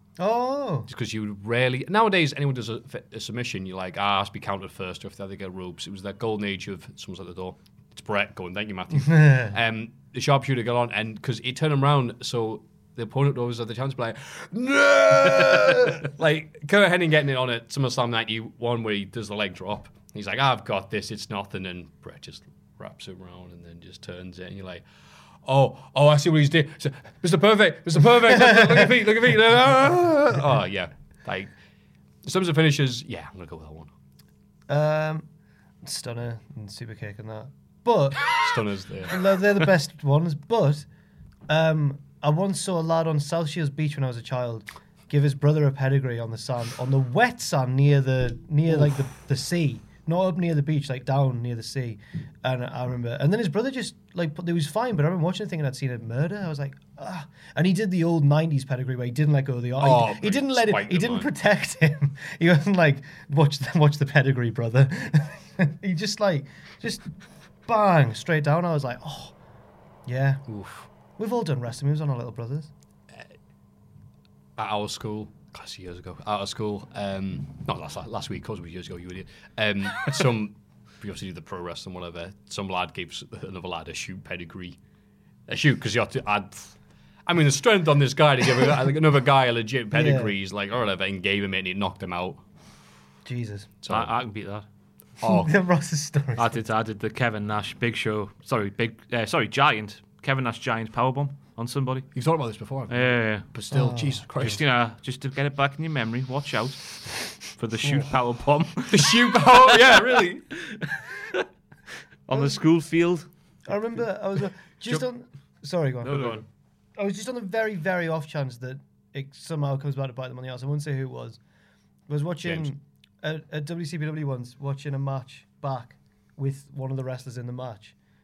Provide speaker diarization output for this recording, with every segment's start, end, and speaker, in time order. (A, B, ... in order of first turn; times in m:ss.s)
0:00.2-0:00.9 A
0:00.9-0:24.8 B
0:09.0-0:09.5 A
0:25.4-0:31.5 B
0:32.2-0:33.9 B
0:34.7-0:35.3 A
0:35.8-0:38.4 A
0:38.4-0:39.2 B
0:39.1-0:40.9 A
0:41.5-1:07.1 A
0:59.8-1:01.3 B
1:07.7-1:09.3 A
1:10.1-1:10.4 A
1:10.5-1:10.9 B
1:11.2-1:12.7 A
1:14.6-1:24.8 B
1:25.5-1:32.4 B
1:29.9-1:30.3 A
1:33.3-1:33.7 A
1:33.8-1:34.1 B
1:33.9-1:34.6 C
1:35.2-1:35.5 B
1:35.2-1:36.7 A
1:36.4-1:42.1 C
1:42.1-1:44.6 B
1:42.9-1:43.5 C
1:43.7-1:44.3 A
1:44.4-1:51.4 C
1:48.9-1:50.5 B
1:52.3-1:53.3 C
1:53.7-1:56.3 A
1:56.0-1:56.4 C
1:56.1-1:56.4 B
1:57.0-2:01.4 A
2:02.1-2:08.0 A
2:02.4-2:02.7 B